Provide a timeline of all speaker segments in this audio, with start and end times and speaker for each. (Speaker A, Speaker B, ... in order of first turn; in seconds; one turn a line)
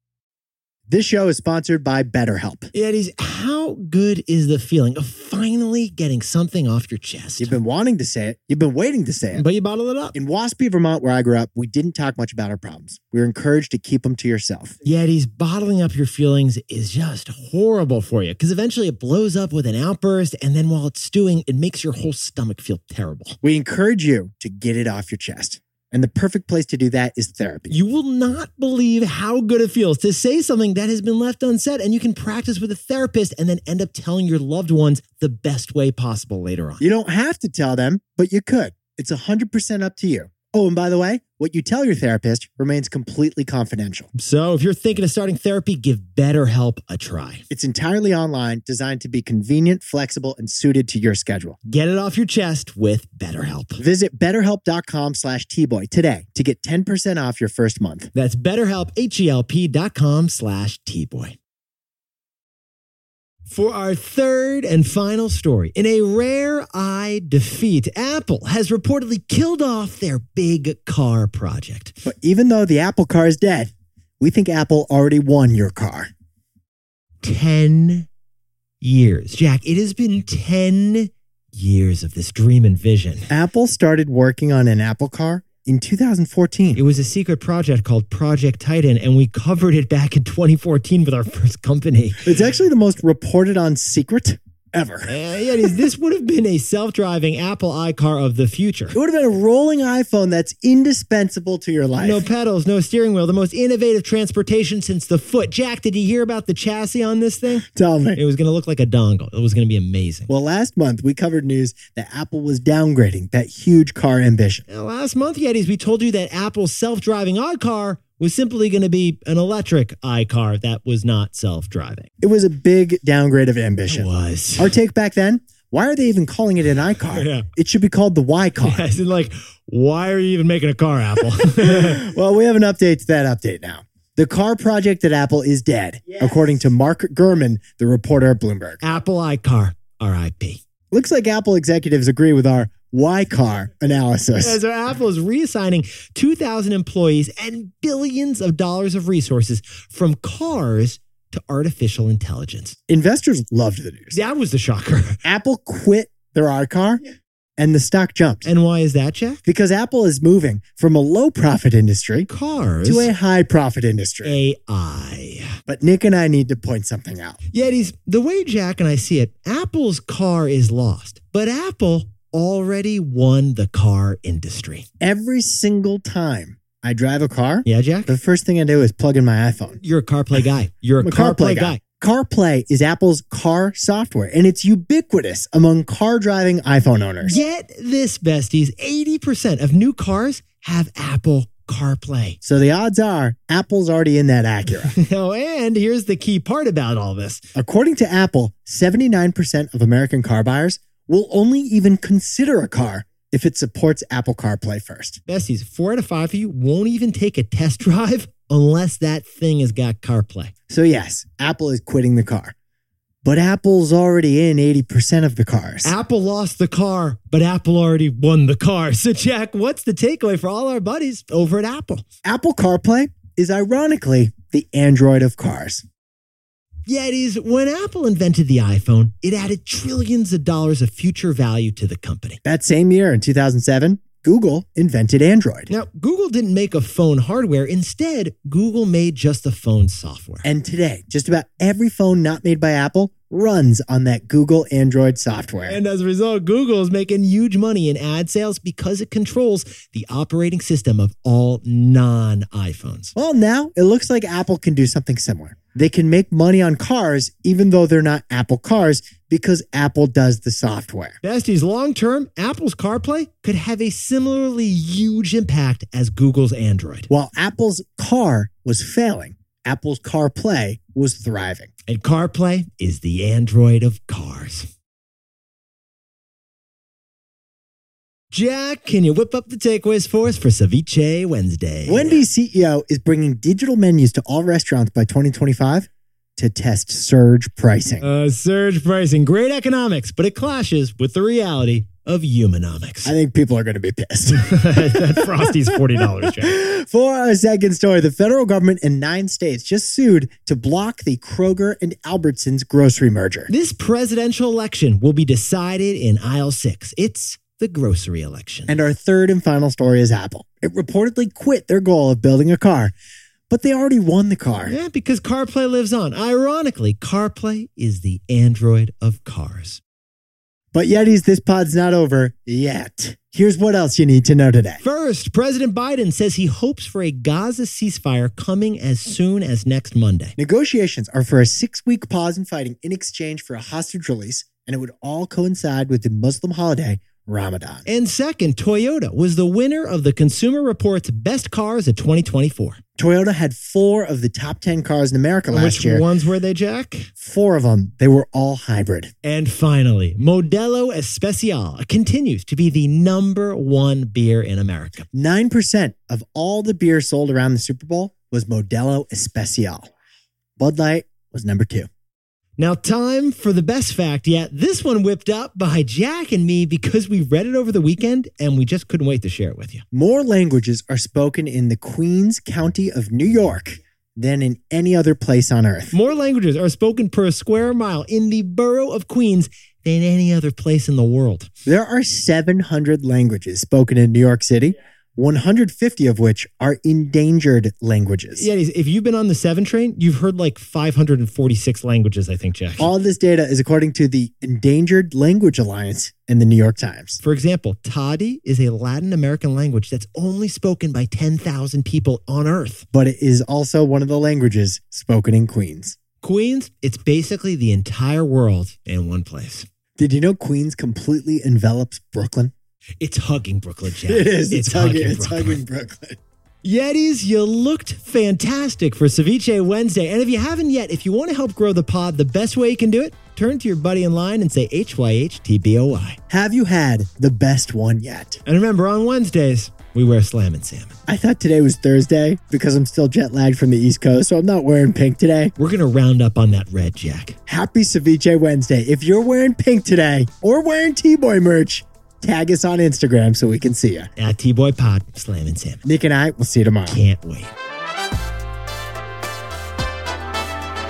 Speaker A: 0.9-2.7
Speaker B: 2.7-7.6
Speaker A: 7.4-9.5
Speaker B: 9.3-10.2
Speaker A: 10.1-14.8
Speaker B: 14.8-23.4
Speaker A: 23.4-27.8
Speaker B: 27.7-36.8
Speaker A: 36.8-44.1
Speaker B: 44.1-47.5
Speaker A: 47.5-51.6
Speaker B: 51.7-53.8
Speaker A: 53.8-58.1
Speaker B: 58.1-61.4
Speaker B: 63.5-72.0
Speaker A: 72.0-76.1
Speaker B: 77.2-78.1
Speaker B: 78.8-83.3
Speaker A: 83.3-86.8
Speaker B: 86.8-92.3
Speaker A: 92.2-95.1
Speaker B: 95.1-99.0
Speaker A: 98.9-102.2
Speaker B: 102.0-110.3
Speaker A: 107.7-108.2
Speaker A: 110.3-114.7
Speaker B: 114.7-122.1
Speaker A: 122.2-128.8
Speaker B: 123.9-124.7
Speaker B: 127.1-127.5
Speaker B: 128.6-132.0
Speaker A: 131.6-138.8
Speaker B: 138.8-140.6
Speaker A: 140.9-144.6
Speaker B: 144.4-152.8
Speaker A: 152.9-154.2
Speaker B: 154.1-155.2
Speaker A: 155.2-157.0
Speaker A: 157.6-158.5
Speaker B: 158.4-159.4
Speaker A: 159.5-162.3
Speaker B: 162.3-163.1
Speaker A: 162.8-164.4
Speaker B: 164.2-165.6
Speaker A: 165.7-167.4
Speaker B: 167.5-174.9
Speaker A: 175.0-179.8
Speaker B: 177.7-178.2
Speaker B: 179.8-181.8
Speaker A: 181.0-187.4
Speaker B: 187.2-192.4
Speaker A: 192.4-194.9
Speaker B: 194.8-197.5
Speaker A: 197.6-205.2
Speaker B: 205.3-210.5
Speaker A: 210.7-212.6
Speaker A: 213.2-215.9
Speaker B: 215.8-222.1
Speaker A: 222.2-225.8
Speaker B: 226.9-232.4
Speaker A: 232.4-235.7
Speaker B: 235.7-240.4
Speaker A: 240.4-245.8
Speaker B: 245.7-253.1
Speaker A: 253.2-261.2
Speaker B: 261.2-267.1
Speaker A: 267.1-271.7
Speaker B: 271.9-274.7
Speaker B: 278.3-282.3
Speaker A: 281.9-288.1
Speaker B: 288.0-293.1
Speaker A: 293.1-303.5
Speaker B: 294.3-296.6
Speaker B: 303.5-308.8
Speaker A: 308.7-312.9
Speaker A: 313.5-314.8
Speaker B: 314.7-319.8
Speaker A: 320.7-324.8
Speaker B: 324.8-330.4
Speaker A: 330.4-337.9
Speaker B: 337.9-342.8
Speaker A: 343.0-346.1
Speaker B: 345.5-347.1
Speaker A: 347.2-349.1
Speaker B: 349.2-355.1
Speaker A: 355.1-359.9
Speaker A: 360.6-361.9
Speaker B: 362.6-369.9
Speaker A: 369.9-375.9
Speaker B: 375.9-381.5
Speaker A: 381.6-388.5
Speaker B: 388.4-392.9
Speaker A: 392.8-397.2
Speaker B: 397.2-402.9
Speaker A: 402.9-406.0
Speaker B: 406.2-409.7
Speaker A: 410.0-412.5
Speaker B: 413.0-415.6
Speaker A: 414.1-416.2
Speaker B: 416.6-426.2
Speaker A: 426.3-428.4
Speaker B: 428.5-430.9
Speaker A: 431.1-435.5
Speaker B: 435.6-437.4
Speaker A: 437.5-444.1
Speaker B: 444.2-445.8
Speaker A: 445.8-447.0
Speaker B: 446.9-447.5